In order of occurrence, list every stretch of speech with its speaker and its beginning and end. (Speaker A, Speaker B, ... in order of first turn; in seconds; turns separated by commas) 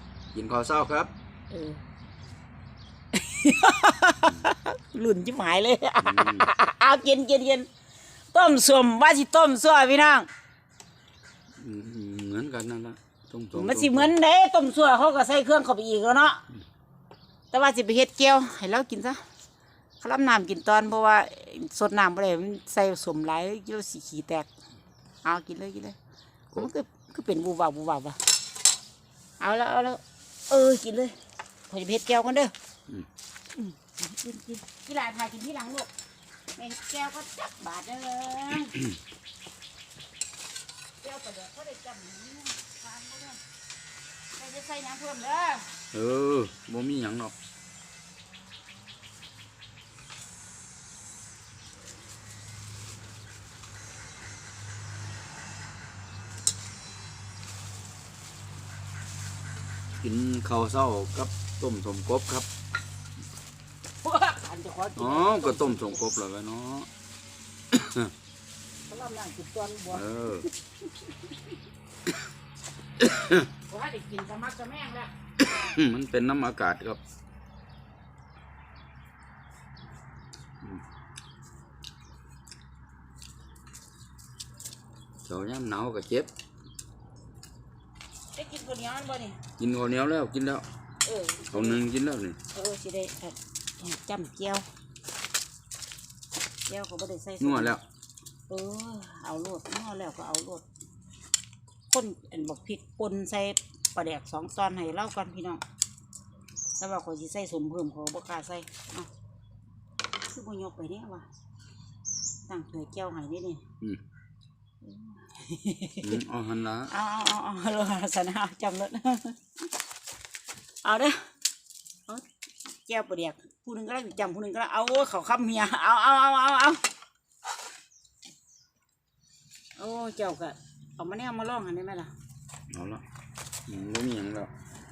Speaker A: 0.3-1.1, Speaker B: 1.5-1.8, Speaker B: 3.1-7.7, Speaker A: 6.0-6.5, Speaker B: 8.3-10.3, Speaker A: 11.6-14.1, Speaker B: 13.5-16.4, Speaker B: 17.5-19.2, Speaker B: 20.0-24.5, Speaker B: 25.2-26.0, Speaker B: 26.6-28.2, Speaker B: 29.4-31.1, Speaker B: 31.7-32.5, Speaker B: 33.5-35.9, Speaker B: 36.5-38.8, Speaker B: 41.0-43.4, Speaker B: 44.4-45.8, Speaker A: 45.9-47.3, Speaker A: 60.0-62.5, Speaker B: 64.0-66.0, Speaker A: 65.0-66.9, Speaker A: 67.7-68.1, Speaker B: 68.9-71.3, Speaker A: 69.9-70.5, Speaker A: 73.0-73.5, Speaker B: 73.7-75.1, Speaker A: 75.5-77.0, Speaker A: 85.2-86.3, Speaker B: 88.3-89.4, Speaker A: 89.6-90.7, Speaker B: 91.0-91.8, Speaker A: 91.5-92.4, Speaker B: 92.5-94.7, Speaker B: 96.7-97.8, Speaker A: 97.4-97.8, Speaker B: 98.5-100.6, Speaker B: 101.9-105.6, Speaker B: 106.8-109.1, Speaker B: 110.2-111.2, Speaker B: 112.5-113.6, Speaker B: 114.8-116.2, Speaker A: 116.0-116.9, Speaker B: 116.9-119.4, Speaker B: 120.8-121.3, Speaker B: 122.8-126.8, Speaker B: 129.8-132.1, Speaker A: 132.7-133.0, Speaker A: 133.7-134.5